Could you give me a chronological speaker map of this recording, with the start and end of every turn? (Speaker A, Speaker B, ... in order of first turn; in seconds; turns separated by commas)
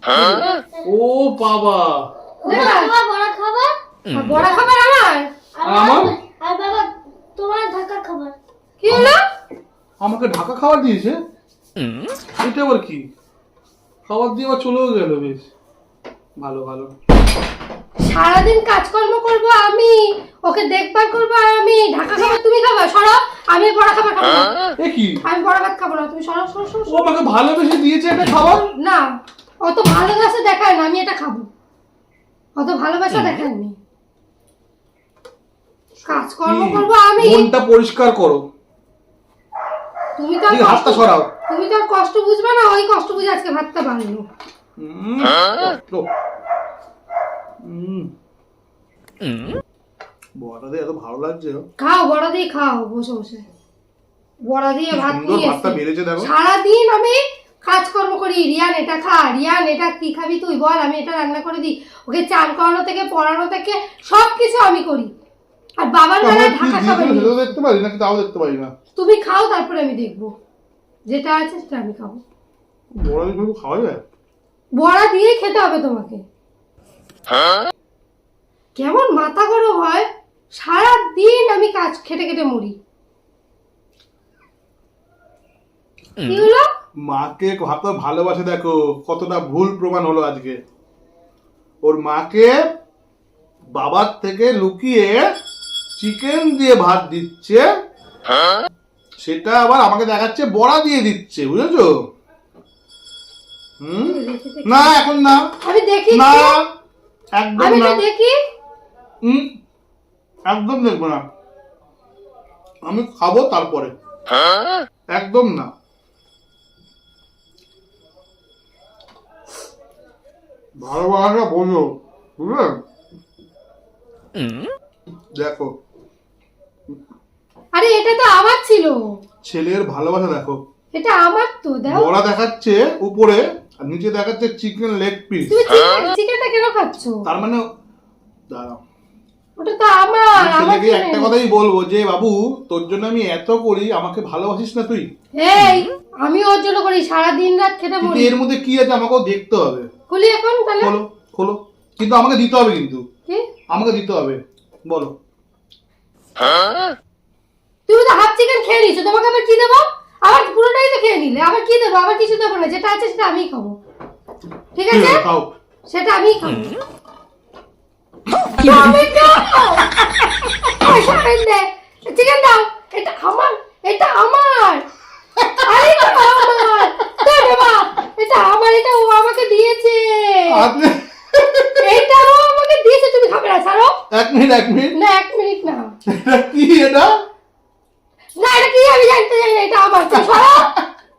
Speaker A: 0.1-2.7, Speaker B: 0.1-0.8, Speaker B: 2.4-3.8, Speaker C: 2.5-2.9, Speaker C: 4.1-5.3, Speaker B: 4.3-4.6, Speaker B: 5.5-8.4, Speaker A: 5.6-6.1, Speaker C: 8.8-9.2, Speaker A: 8.9-9.1, Speaker A: 10.0-11.2, Speaker A: 12.4-13.0, Speaker A: 14.1-15.5, Speaker A: 16.4-16.9, Speaker C: 18.0-24.6, Speaker A: 24.8-25.2, Speaker C: 25.2-27.1, Speaker A: 26.9-28.6, Speaker C: 28.8-29.0, Speaker C: 29.6-31.5, Speaker C: 32.6-33.8, Speaker A: 36.0-38.4, Speaker C: 36.0-37.5, Speaker C: 40.2-44.2, Speaker A: 40.5-41.3, Speaker A: 44.8-46.0, Speaker A: 47.6-48.1, Speaker A: 50.4-51.6, Speaker C: 51.8-53.5, Speaker C: 54.5-65.1, Speaker A: 54.9-56.3, Speaker C: 65.8-67.4, Speaker A: 66.2-68.7, Speaker C: 68.9-70.3, Speaker C: 71.1-72.2, Speaker A: 72.9-74.0, Speaker C: 74.8-76.2, Speaker C: 78.7-82.8, Speaker C: 86.2-86.7, Speaker A: 87.0-90.6, Speaker A: 91.8-92.6, Speaker A: 93.7-95.2, Speaker A: 96.0-97.7, Speaker A: 99.2-101.9, Speaker A: 103.8-105.4, Speaker C: 104.0-105.0, Speaker C: 105.6-106.6, Speaker A: 106.1-106.6, Speaker A: 107.3-108.0, Speaker C: 107.6-108.3, Speaker A: 109.2-109.5, Speaker A: 110.5-111.2, Speaker A: 112.8-113.9, Speaker A: 115.1-115.7, Speaker A: 120.8-122.8, Speaker A: 125.4-125.7, Speaker C: 127.7-129.0, Speaker A: 129.4-130.6, Speaker C: 130.9-132.1, Speaker A: 131.9-135.6, Speaker C: 135.5-137.2, Speaker A: 137.2-137.6, Speaker A: 138.5-138.8, Speaker C: 139.6-141.3, Speaker A: 140.4-145.1, Speaker C: 145.3-148.3, Speaker A: 148.0-149.9, Speaker C: 150.1-150.9, Speaker A: 150.8-153.0, Speaker A: 153.7-155.1, Speaker C: 157.9-163.8, Speaker C: 164.7-165.2, Speaker A: 164.9-165.5, Speaker C: 165.9-166.7, Speaker C: 168.6-169.9, Speaker C: 170.6-174.8, Speaker A: 175.4-175.8, Speaker C: 175.6-180.7, Speaker A: 180.5-182.0, Speaker C: 181.8-184.0, Speaker A: 184.1-184.9, Speaker C: 184.9-185.9, Speaker A: 186.1-187.1, Speaker C: 188.4-190.7, Speaker A: 190.1-190.8